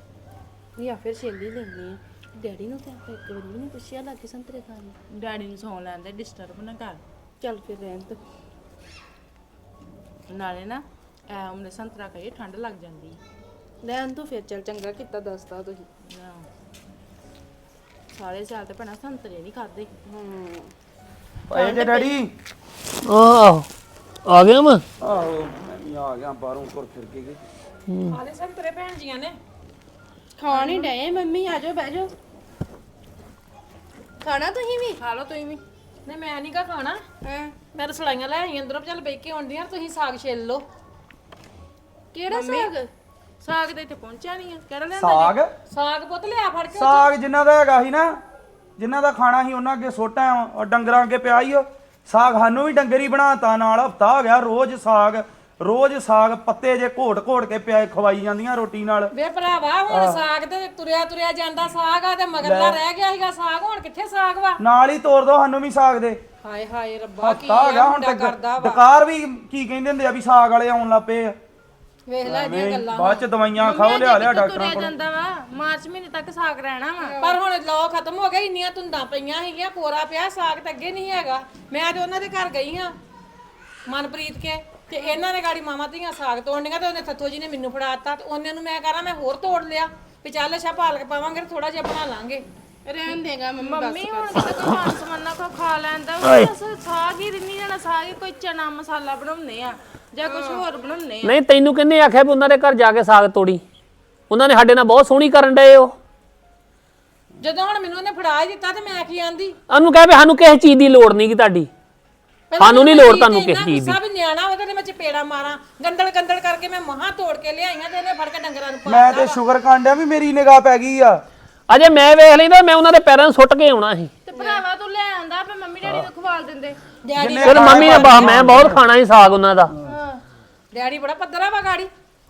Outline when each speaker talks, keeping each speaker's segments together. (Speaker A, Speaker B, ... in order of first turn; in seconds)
Speaker A: 0.8-8.2, 10.3-13.2, 13.8-16.5, 18.1-20.6, 21.6-22.0, 30.4-32.1, 34.2-35.6, 37.2-37.5, 42.1-42.9, 43.4-45.4, 73.5-77.2, 92.8-101.4, 124.2-128.7, 129.8-130.2
Speaker B: 21.5-22.3, 25.0-27.4, 45.0-45.5, 46.7-48.2, 48.8-59.1, 59.9-60.2, 62.4-62.8, 64.6-66.2, 67.2-71.4, 72.2-74.9, 118.9-121.2, 127.2-128.8
Speaker C: 23.0-23.6, 24.2-24.8, 96.2-96.5, 101.2-103.6, 104.3-105.9, 109.7-111.7, 112.6-114.0, 121.7-124.1, 127.4-129.7
Speaker D: 28.1-29.4, 30.5-30.8, 36.0-37.0, 37.7-40.6, 42.3-42.7, 45.7-47.1, 59.1-64.6, 66.4-68.8, 72.1-73.2, 77.1-82.9, 83.9-92.4, 93.7-94.2, 107.4-109.5, 112.5-119.4, 127.1-128.3, 130.7-131.9